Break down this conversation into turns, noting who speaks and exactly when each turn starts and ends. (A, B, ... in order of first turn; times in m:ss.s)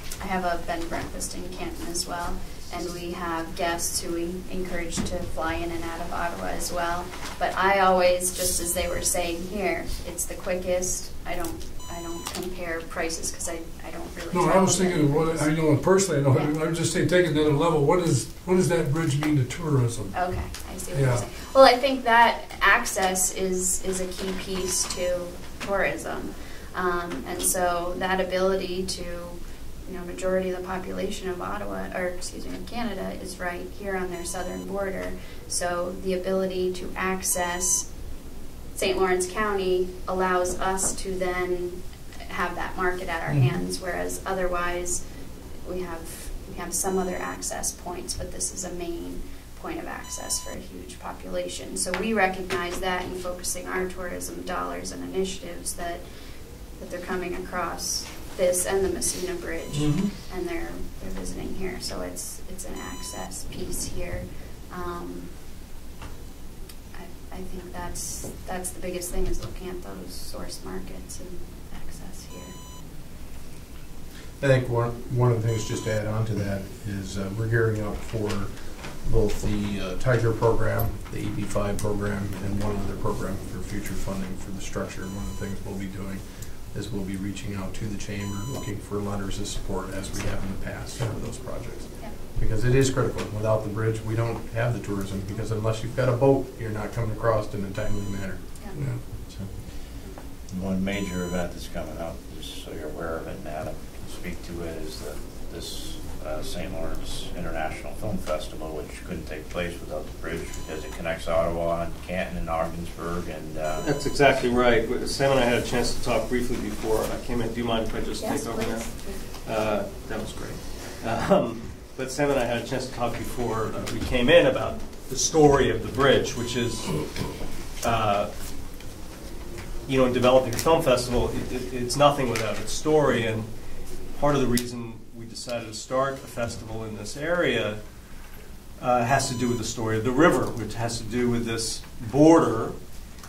0:00.2-0:15.5 A
0:14.3-0:20.1 B
0:16.3-0:16.5 A
0:20.1-0:37.9 A
0:20.9-0:21.2 B
0:38.8-0:45.0 A
0:45.6-0:56.0 A
0:56.8-1:05.3 A
0:59.7-1:00.1 C
1:06.9-1:12.5 A
1:14.4-1:38.4 D
1:40.5-1:53.9 E
1:53.8-2:07.2 C
1:58.2-1:59.2 A
2:07.8-2:08.3 C
2:09.8-2:13.5 C
2:14.2-2:17.8 C
2:18.8-2:22.8 C